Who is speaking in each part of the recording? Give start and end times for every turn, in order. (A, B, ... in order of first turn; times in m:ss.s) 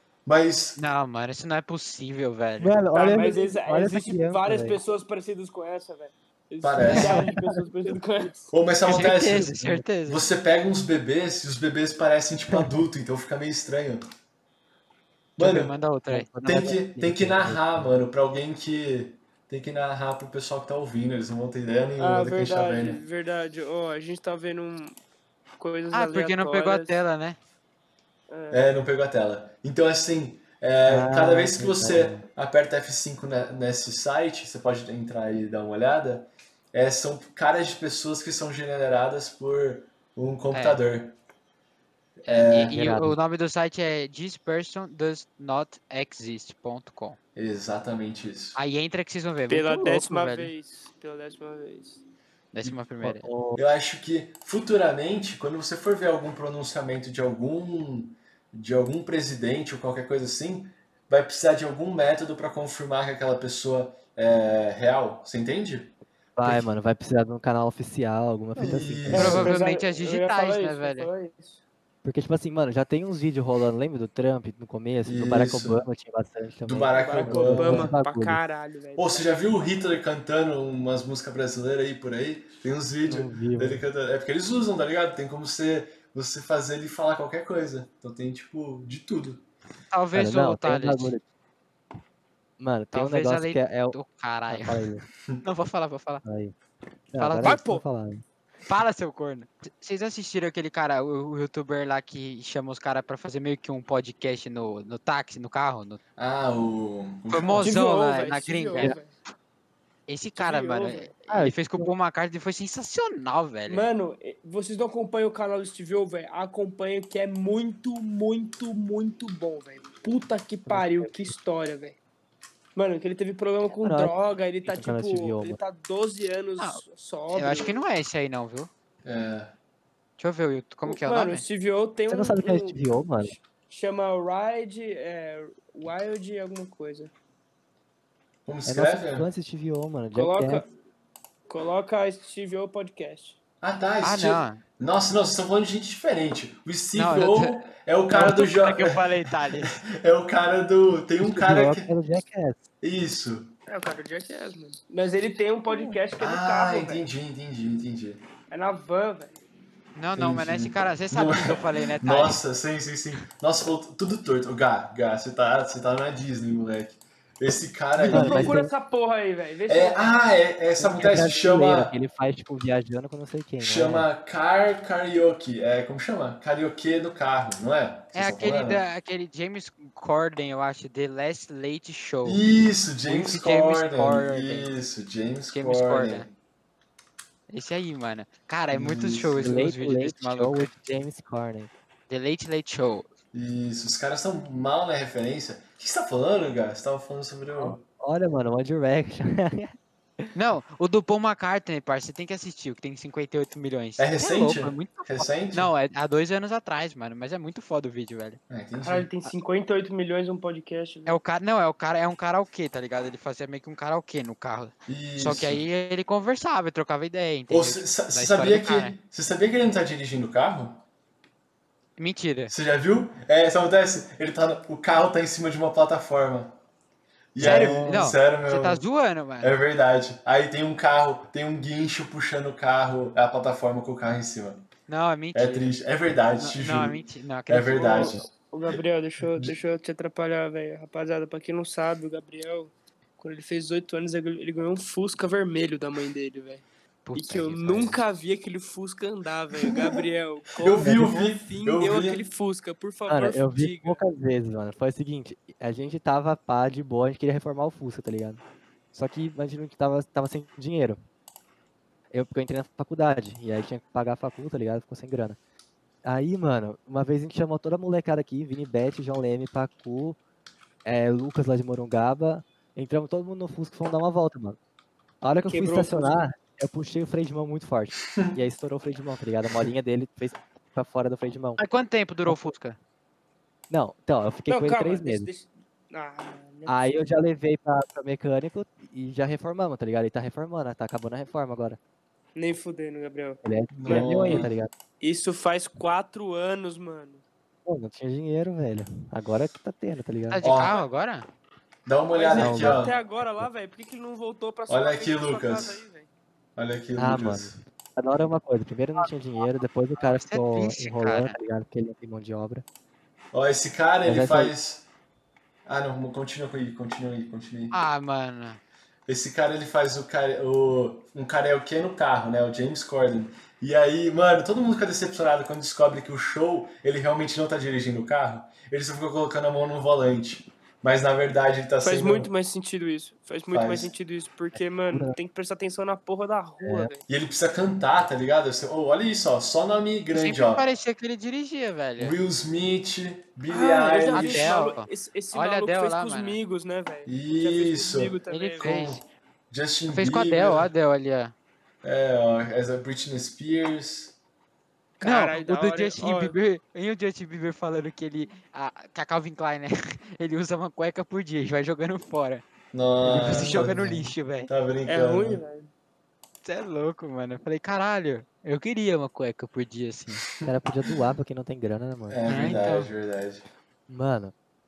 0:00.2-0:00.8 A
0:00.8-0:02.8 B
0:02.6-0:04.8 C
0:02.9-0:08.5 D
0:06.6-0:07.2 A
0:06.8-0:07.6 C
0:08.5-0:14.0 A
0:08.8-0:10.3 B
0:09.3-0:09.8 C
0:15.4-0:15.7 A
0:15.4-0:16.3 B
0:16.1-0:17.9 C
0:16.4-0:23.0 A
0:22.0-0:25.0 D
0:25.6-0:27.0 D
0:25.9-0:27.4 B
0:28.3-0:28.6 D
0:28.5-0:41.2 A
0:30.9-0:32.2 C
0:40.5-0:40.8 B
0:42.2-0:42.8 A
0:42.3-0:47.2 B
0:42.7-0:43.2 C
0:47.4-0:48.6 A
0:48.6-0:50.5 B
0:49.5-0:52.0 D
0:52.5-0:53.3 B
0:53.0-0:53.6 C
0:53.5-1:06.7 A
1:06.4-1:09.5 C
1:08.6-1:09.5 A
1:09.1-1:11.6 D
1:09.1-1:11.1 B
1:12.0-1:18.4 C
1:15.0-1:15.8 A
1:16.6-1:17.9 A
1:16.9-1:19.3 D
1:19.0-1:29.4 A
1:23.1-1:23.8 C
1:29.9-1:31.1 B
1:30.1-1:31.2 C
1:32.6-1:35.0 C
1:32.9-1:34.9 B
1:35.4-1:36.2 B
1:36.2-1:36.5 C
1:37.1-1:38.2 C
1:37.2-1:37.6 B
1:37.4-1:37.8 D
1:38.6-1:46.0 B
1:46.2-1:47.7 A
1:47.3-1:49.0 B
1:47.6-1:49.1 D
1:50.1-1:53.9 B
1:50.4-1:51.1 D
1:51.3-1:51.9 C
1:53.7-2:02.0 D
2:00.7-2:01.3 C
2:02.7-2:07.8 D
2:03.8-2:04.1 C
2:04.6-2:05.6 C
2:06.6-2:08.7 B
2:09.0-2:09.5 A
2:10.2-2:11.4 B
2:10.9-2:17.1 D
2:12.1-2:13.4 C
2:18.4-2:19.3 A
2:18.6-2:20.6 C
2:20.1-2:20.7 D
2:21.5-2:23.4 D
2:23.6-2:31.9 A
2:24.0-2:24.6 B
2:26.9-2:29.8 B
2:31.2-2:32.6 C
2:32.8-2:33.5 A
2:33.7-2:37.0 D
2:35.7-2:36.0 C
2:36.2-2:38.2 A
2:38.5-2:39.4 D
2:40.0-2:42.4 B
2:40.2-2:48.6 A
2:48.0-2:50.2 D
2:48.1-2:48.7 C
2:49.7-2:51.9 A
2:50.8-2:54.1 C
2:53.6-2:58.8 A
2:58.1-3:02.5 B
3:02.2-3:06.3 A
3:03.0-3:04.7 B
3:05.5-3:06.2 B
3:07.5-3:10.7 B
3:08.7-3:09.5 A
3:09.4-3:11.7 C
3:12.1-3:13.1 B
3:13.3-3:17.8 A
3:17.6-3:20.3 C
3:20.3-3:28.4 B
3:24.0-3:25.7 A
3:28.5-3:29.1 A
3:28.8-3:31.2 D
3:31.0-3:38.9 B
3:34.9-3:35.6 A
3:37.5-3:40.8 A
3:42.0-3:42.5 B
3:42.5-3:46.6 A
3:47.3-3:48.8 A
3:47.4-3:49.6 B
3:47.4-3:47.9 C
3:49.4-3:54.7 A
3:54.9-3:55.7 B
3:55.3-3:58.3 A
3:56.4-3:58.2 B
3:57.7-4:14.0 D
3:59.3-3:59.5 A
4:07.0-4:08.0 B
4:10.6-4:12.2 A
4:10.8-4:11.1 C
4:13.1-4:18.4 C
4:18.9-4:21.0 C
4:22.1-4:25.4 C
4:26.0-4:30.2 C
4:30.8-4:34.6 C
4:35.2-4:41.6 C
4:35.5-4:36.2 D
4:41.6-4:42.8 B
4:43.7-4:45.3 C
4:44.5-4:47.1 D
4:46.7-4:51.8 C
4:52.4-4:54.5 D
4:53.4-4:54.7 C
4:53.7-4:54.5 A
4:55.0-4:57.2 D
4:57.6-5:00.4 C
5:00.3-5:01.3 B
5:00.4-5:00.8 A
5:01.8-5:02.9 A
5:02.1-5:06.1 D
5:02.4-5:03.4 C
5:04.7-5:05.8 A
5:06.6-5:07.6 A
5:06.9-5:12.6 C
5:10.0-5:11.4 B
5:13.3-5:14.9 A
5:14.0-5:14.5 C
5:15.6-5:17.8 A
5:17.7-5:18.6 B
5:19.1-5:32.3 A
5:31.8-5:37.0 D
5:33.5-5:33.9 A
5:34.6-5:35.2 C
5:36.6-5:36.9 C
5:37.1-5:40.6 A
5:40.1-5:42.2 B
5:42.0-5:44.5 A
5:43.5-5:48.7 D
5:44.1-5:46.4 B
5:47.0-5:50.7 A
5:48.3-5:49.0 B
5:49.9-5:51.3 B
5:51.8-5:54.2 A
5:55.0-5:56.3 D
5:55.0-6:02.4 B
6:02.7-6:03.8 A
6:03.0-6:04.1 C
6:03.1-6:04.5 B
6:04.5-6:05.4 A
6:04.8-6:05.7 D
6:06.4-6:10.2 B
6:10.1-6:10.4 A
6:10.4-6:12.6 C
6:12.1-6:13.4 A
6:12.2-6:12.9 B
6:13.9-6:14.3 C